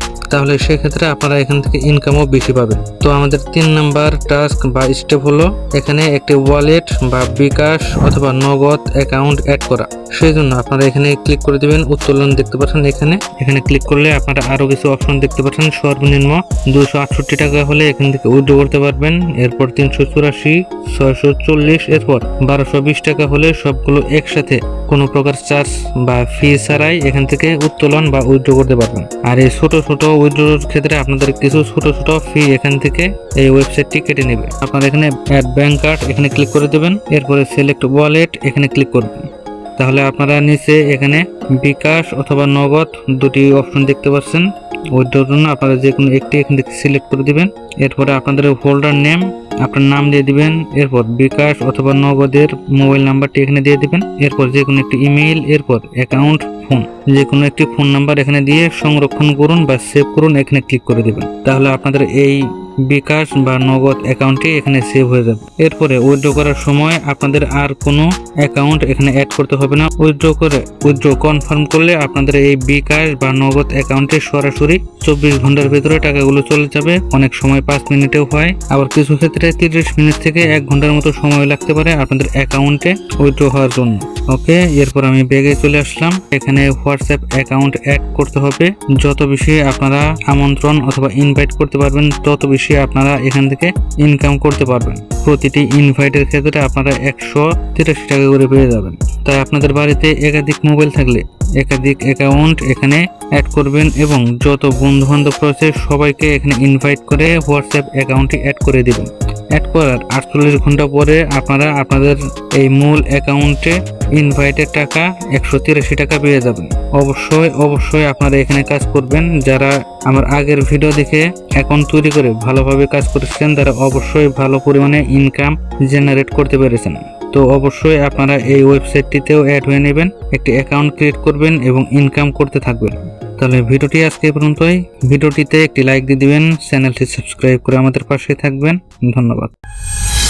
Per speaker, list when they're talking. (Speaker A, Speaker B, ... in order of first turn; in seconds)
Speaker A: 0.3-139.5